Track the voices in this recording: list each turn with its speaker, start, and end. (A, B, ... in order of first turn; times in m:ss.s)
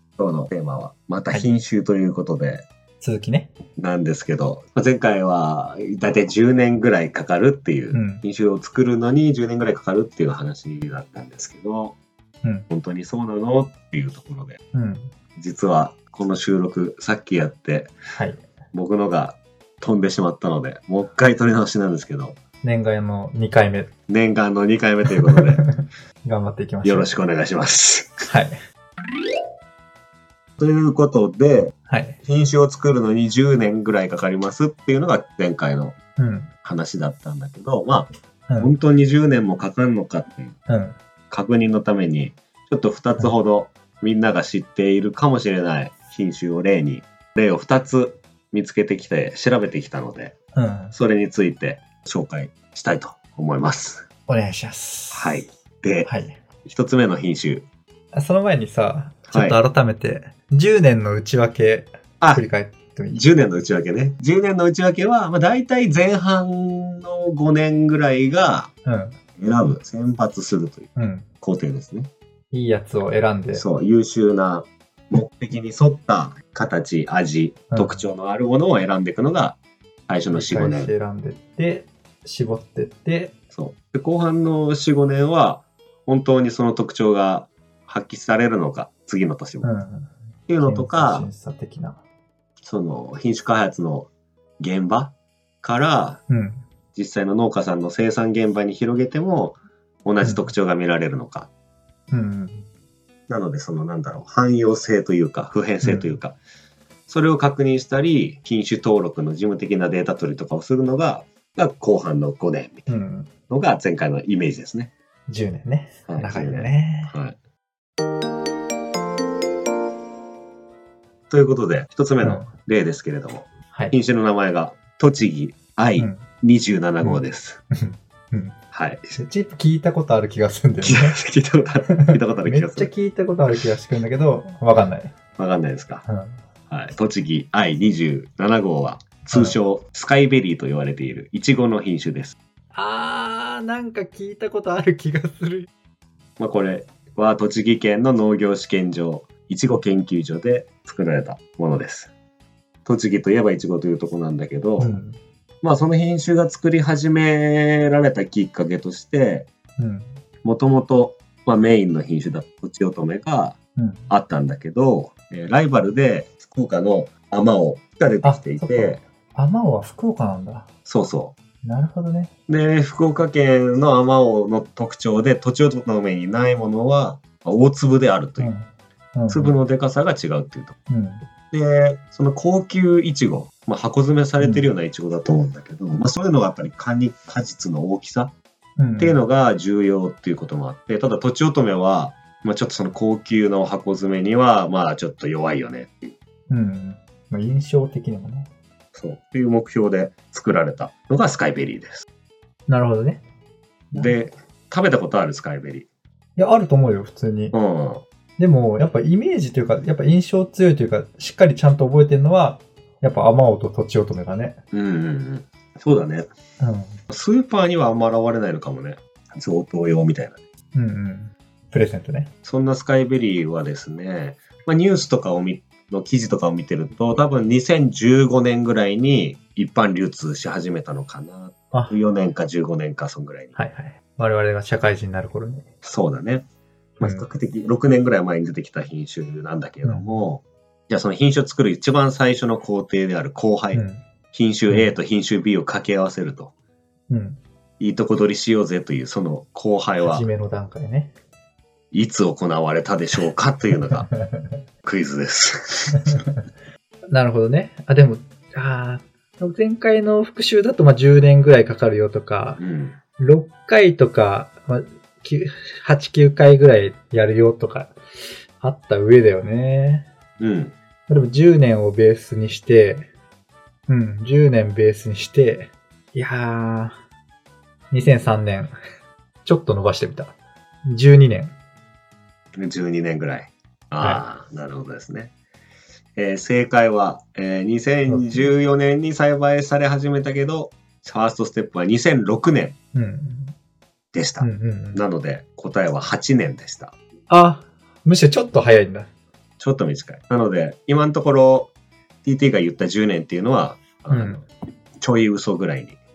0:00.2-0:02.7 A
0:03.0-0:03.5 B
0:03.8-0:12.0 A
0:07.9-0:08.2 B
0:12.7-0:14.6 A
0:14.7-0:15.1 B
0:15.4-0:17.9 A
0:18.2-0:18.4 B
0:18.7-0:22.4 A
0:22.6-0:23.9 B
0:24.1-0:25.6 A
0:25.1-0:27.1 B
0:26.8-0:28.2 A
0:28.3-0:28.6 B
0:30.6-0:35.9 A
0:31.9-0:32.2 B
0:36.2-0:36.5 B
0:36.6-0:38.1 A
0:38.6-0:40.5 A
0:40.7-0:41.0 B
0:41.3-0:50.3 A
0:50.5-0:51.0 B
0:50.9-0:54.0 A
0:54.3-0:55.4 B
0:55.1-0:56.1 A
0:56.0-0:56.4 B
0:56.6-0:57.6 A
0:58.1-1:03.2 B
0:59.3-0:59.6 A
1:03.2-1:08.7 A
1:08.8-1:09.2 B
1:09.4-1:10.9 A
1:11.0-1:11.2 B
1:11.4-1:12.1 A
1:12.5-1:13.6 B
1:13.6-1:20.9 A
1:17.7-1:18.0 B
1:20.3-1:23.3 B
1:23.5-1:29.7 A
1:29.6-1:32.0 B
1:30.5-1:31.3 A
1:32.6-1:34.1 A
1:34.6-1:36.2 A
1:36.3-1:36.6 B
1:36.9-1:41.5 A
1:40.2-1:40.5 B
1:42.1-1:42.6 B
1:43.3-1:46.4 A
1:45.8-1:46.2 B
1:47.1-1:52.9 A
1:52.9-1:53.3 B
1:53.5-1:54.9 A
1:55.3-1:57.1 B
1:56.1-1:57.4 A
2:01.3-2:07.6 A
2:02.2-2:02.5 B
2:03.7-2:04.0 B
2:06.0-2:06.3 B
2:07.0-2:08.6 B
2:08.7-2:09.2 A
2:09.1-2:11.2 B
2:10.8-2:12.9 A
2:11.9-2:15.1 B
2:15.4-2:16.0 A
2:16.0-2:16.4 B
2:16.7-2:22.4 A
2:19.3-2:19.6 B
2:22.7-2:25.7 B
2:26.4-2:32.1 A
2:32.8-2:34.9 A
2:34.8-2:35.2 B
2:35.6-2:39.5 A
2:39.8-2:40.1 B
2:40.4-2:43.6 A
2:43.8-2:44.1 B
2:44.1-2:49.0 A
2:48.2-2:50.7 B
2:50.8-2:51.4 A
2:51.6-2:52.3 B
2:52.5-2:58.5 A
2:58.4-2:59.5 B
2:59.3-3:00.8 A
3:00.9-3:01.2 B
3:01.5-3:08.3 A
3:04.4-3:04.6 B
3:08.8-3:09.2 B
3:09.0-3:16.1 A
3:16.5-3:18.5 B
3:18.9-3:22.0 A
3:22.7-3:23.2 B
3:23.9-3:25.9 A
3:26.4-3:27.6 B
3:27.5-3:28.0 A
3:28.4-3:34.6 B
3:34.7-3:36.3 A
3:36.6-3:37.0 B
3:37.1-3:40.4 A
3:40.7-3:42.3 B
3:42.4-3:53.5 A
3:51.7-3:52.0 B
3:53.6-3:55.7 B
3:55.8-3:56.4 A
3:57.0-4:06.5 A
3:57.0-3:57.3 B
3:59.8-4:00.1 B
4:03.7-4:04.0 B
4:07.1-4:07.4 B
4:07.8-4:10.2 A
4:10.0-4:11.1 B
4:11.9-4:14.1 A
4:14.0-4:14.6 B
4:14.8-4:16.2 A
4:15.9-4:16.4 B
4:17.1-4:22.6 B
4:22.6-4:23.0 A
4:23.2-4:28.0 B
4:28.6-4:30.1 B
4:30.4-4:30.7 A
4:31.1-4:33.1 B
4:33.9-4:37.0 B
4:37.9-4:38.7 B
4:39.4-4:41.5 B
4:42.6-4:45.3 A
4:46.2-4:52.8 A
4:48.1-4:48.5 B
4:52.9-4:53.6 B
4:54.1-4:56.9 A
4:54.4-4:55.0 B
4:57.3-4:59.1 B
4:59.6-5:01.7 A
5:02.2-5:04.4 A
5:04.1-5:04.4 B
5:05.0-5:06.0 A